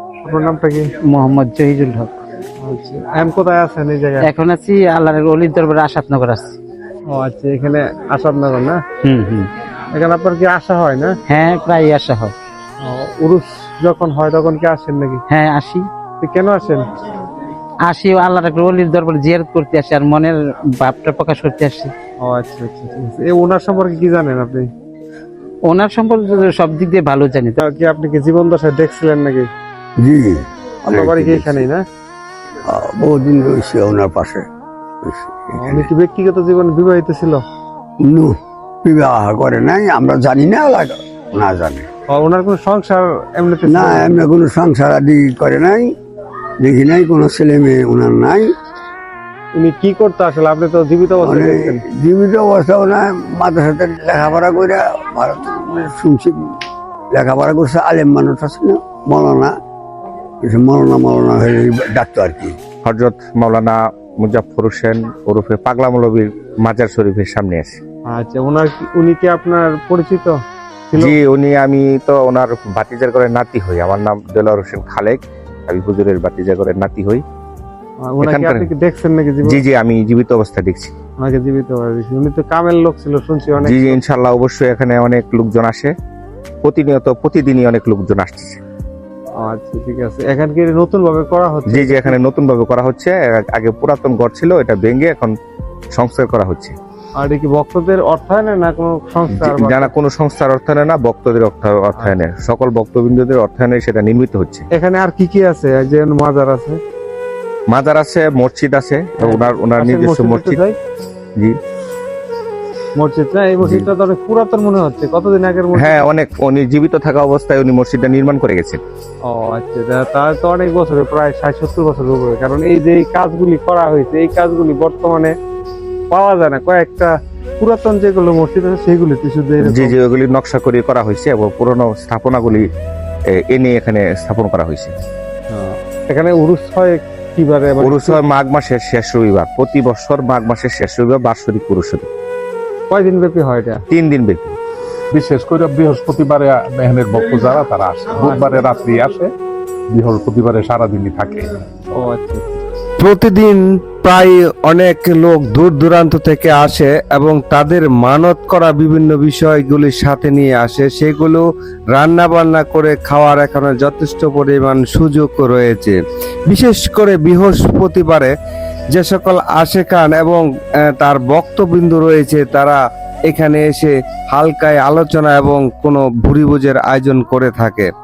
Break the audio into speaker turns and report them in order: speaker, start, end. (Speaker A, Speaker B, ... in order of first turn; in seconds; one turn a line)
Speaker A: 0.2-0.9
Speaker B: 1.1-2.1
Speaker A: 2.6-4.3
Speaker B: 4.2-6.5
Speaker A: 7.1-8.8
Speaker B: 9.0-9.5
Speaker A: 9.9-11.1
Speaker B: 11.3-12.3
Speaker A: 12.8-15.2
Speaker B: 15.3-15.9
Speaker A: 16.2-16.9
Speaker B: 17.9-21.9
Speaker A: 22.2-24.7
Speaker B: 25.7-27.6
Speaker A: 27.6-29.5
Speaker C: 30.0-31.7
Speaker A: 30.9-31.8
Speaker C: 32.7-34.5
Speaker C: 35.0-35.9
Speaker A: 35.6-37.4
Speaker C: 38.0-41.9
Speaker A: 42.1-44.3
Speaker C: 43.7-45.9
Speaker C: 46.6-48.5
Speaker A: 49.6-51.8
Speaker C: 51.2-56.5
Speaker C: 57.1-59.6
Speaker C: 60.4-62.6
Speaker D: 62.8-67.8
Speaker A: 68.1-70.4
Speaker A: 70.9-71.2
Speaker D: 71.0-77.2
Speaker A: 78.0-79.6
Speaker D: 78.2-78.7
Speaker D: 79.5-80.9
Speaker A: 81.2-84.0
Speaker D: 83.6-85.9
Speaker D: 86.6-88.6
Speaker A: 89.4-92.2
Speaker D: 91.7-95.3
Speaker D: 95.9-96.8
Speaker A: 97.2-99.9
Speaker D: 99.3-104.7
Speaker A: 104.7-106.8
Speaker D: 107.7-110.6
Speaker A: 109.2-110.8
Speaker A: 113.0-116.0
Speaker D: 115.8-118.8
Speaker A: 119.3-125.3
Speaker A: 126.1-130.0
Speaker D: 129.6-132.7
Speaker D: 133.3-134.9
Speaker A: 135.5-138.2
Speaker D: 137.8-142.1
Speaker A: 142.9-143.8
Speaker D: 143.9-144.6
Speaker E: 145.1-149.3
Speaker A: 148.2-148.5
Speaker E: 149.9-151.5
Speaker A: 152.0-152.6
Speaker F: 153.0-166.0
Speaker F: 166.5-168.3
Speaker F: 168.9-177.9